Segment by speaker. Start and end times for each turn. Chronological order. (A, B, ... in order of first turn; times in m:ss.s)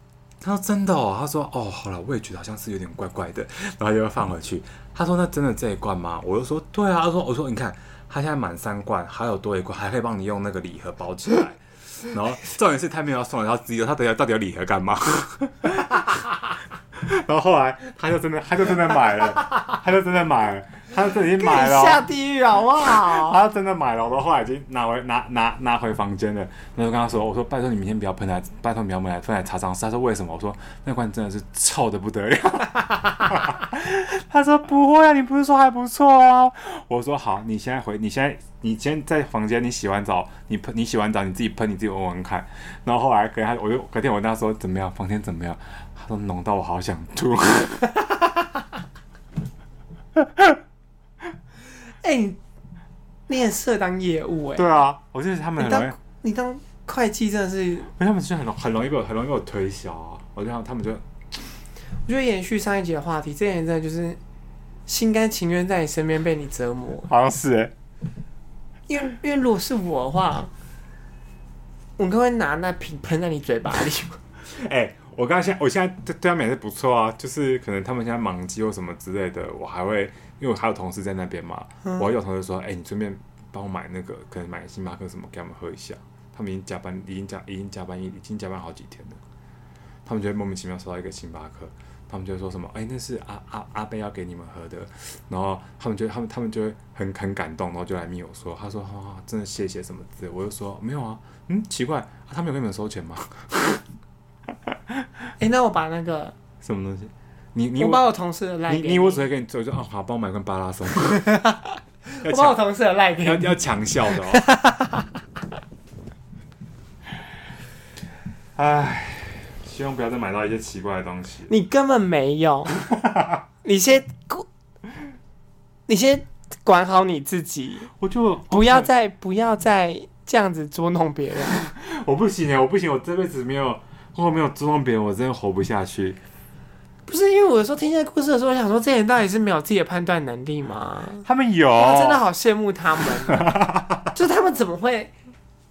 0:00.4-0:16.2 A
0:17.0-0:22.0 A
0:21.4-0:23.4 B
0:22.8-0:48.0 A
0:50.2-0:50.5 A
0:52.0-0:52.4 B
0:53.3-0:54.7 B
0:54.6-0:56.0 A
0:55.6-0:57.9 B
0:58.0-1:01.0 A
1:02.1-1:04.2 B
1:04.9-1:07.1 B
1:07.1-1:07.7 A
1:08.9-1:10.5 B
1:12.0-1:14.2 B
1:14.5-1:29.2 A
1:30.0-1:43.8 A
1:44.7-1:45.1 A
1:45.4-1:46.4 B
1:46.6-1:48.0 A
1:47.8-1:49.2 B
1:48.7-1:51.2 A
1:51.2-1:53.6 B
1:52.2-1:52.6 A
1:53.2-1:54.4 A
1:54.3-1:55.0 B
1:58.6-2:01.5 A
2:01.5-2:02.8 B
2:02.8-2:03.4 A
2:03.6-2:04.5 B
2:05.9-2:07.9 B
2:08.0-2:08.9 A
2:08.5-2:11.7 B
2:11.6-2:16.2 A
2:17.1-2:23.6 B
2:21.2-2:22.2 A
2:23.3-2:24.1 A
2:24.1-2:25.1 B